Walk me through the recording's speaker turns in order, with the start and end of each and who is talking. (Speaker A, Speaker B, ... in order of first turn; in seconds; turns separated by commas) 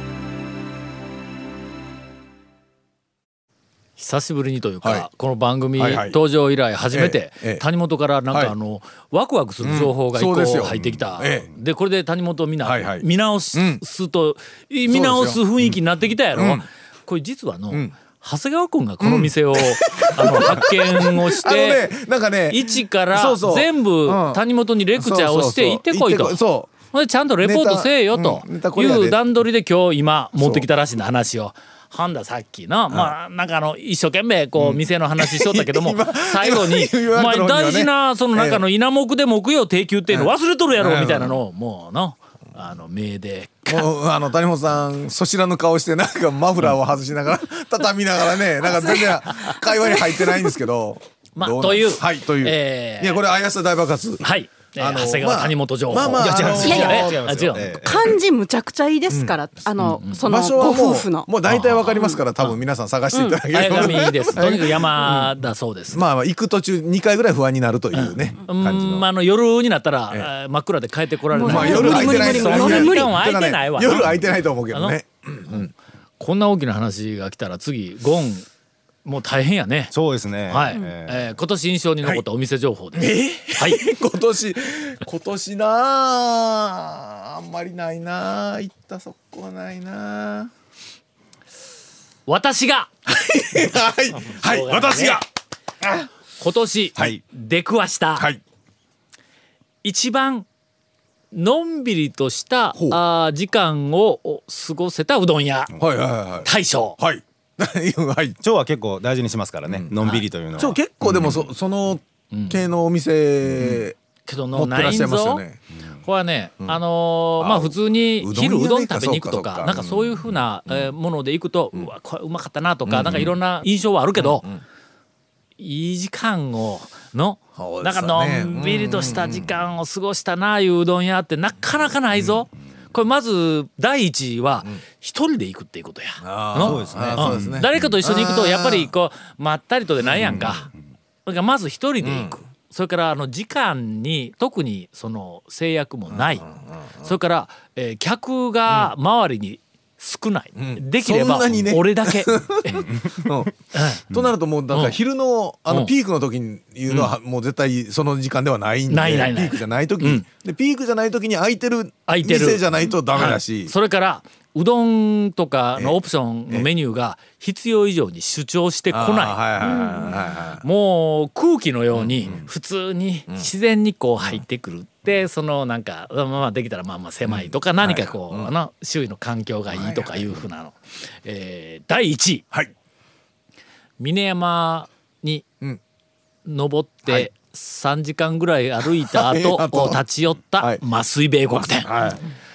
Speaker A: 4.0-21.9, Speaker B: 5.8-6.2, Speaker B: 6.9-7.6, Speaker B: 9.6-11.5, Speaker B: 12.6-13.8, Speaker B: 14.9-15.8, Speaker B: 16.3-16.6, Speaker B: 19.0-24.4, Speaker A: 22.5-26.4, Speaker B: 25.0-26.7, Speaker A: 26.9-43.9, Speaker B: 27.4-29.2, Speaker B: 30.4-30.7, Speaker B: 34.6-38.6, Speaker B: 40.1-41.4, Speaker B: 43.7-57.2, Speaker A: 51.4-53.2, Speaker A: 54.2-57.7, Speaker C: 56.1-58.1, Speaker D: 56.6-57.0, Speaker D: 57.8-61.3, Speaker B: 59.1-59.4, Speaker A: 59.8-60.2, Speaker B: 60.2-65.3, Speaker A: 61.5-62.5, Speaker D: 61.9-62.2, Speaker D: 63.1-63.4, Speaker A: 63.5-66.0, Speaker B: 65.9-69.0, Speaker A: 67.9-74.1, Speaker D: 71.3-73.1, Speaker B: 71.4-75.7, Speaker A: 74.7-75.0, Speaker A: 76.2-78.5, Speaker A: 79.0-79.9, Speaker C: 79.9-81.2, Speaker A: 80.5-83.8, Speaker B: 82.9-90.5, Speaker A: 92.3-92.9, Speaker B: 93.1-95.2, Speaker A: 94.1-95.2, Speaker A: 96.4-98.2, Speaker A: 99.8-100.5, Speaker A: 101.3-105.7, Speaker B: 105.8-108.4, Speaker A: 106.4-107.0, Speaker C: 108.4-111.4, Speaker B: 110.6-113.9, Speaker A: 112.3-112.6, Speaker A: 114.2-115.4, Speaker B: 114.5-115.6, Speaker A: 116.0-124.4, Speaker B: 117.4-120.9, Speaker B: 122.9-123.3, Speaker B: 124.2-124.6, Speaker A: 125.6-140.7, Speaker B: 127.5-129.5, Speaker B: 136.2-138.9, Speaker C: 136.6-137.6, Speaker B: 140.0-140.6, Speaker A: 141.2-146.4, Speaker B: 142.0-142.4, Speaker B: 146.1-147.1, Speaker A: 147.0-153.0, Speaker B: 150.6-153.5, Speaker A: 153.7-154.0, Speaker B: 154.1-163.7, Speaker A: 156.9-157.1, Speaker A: 158.9-160.2, Speaker A: 162.1-162.6, Speaker A: 163.1-169.8, Speaker B: 168.9-170.6, Speaker D: 169.6-170.1, Speaker A: 170.6-182.4, Speaker B: 171.9-172.5, Speaker B: 177.2-178.5, Speaker B: 179.7-180.4, Speaker A: 184.0-185.4, Speaker A: 186.4-191.9, Speaker B: 189.0-190.0, Speaker B: 190.6-190.8, Speaker B: 191.5-192.2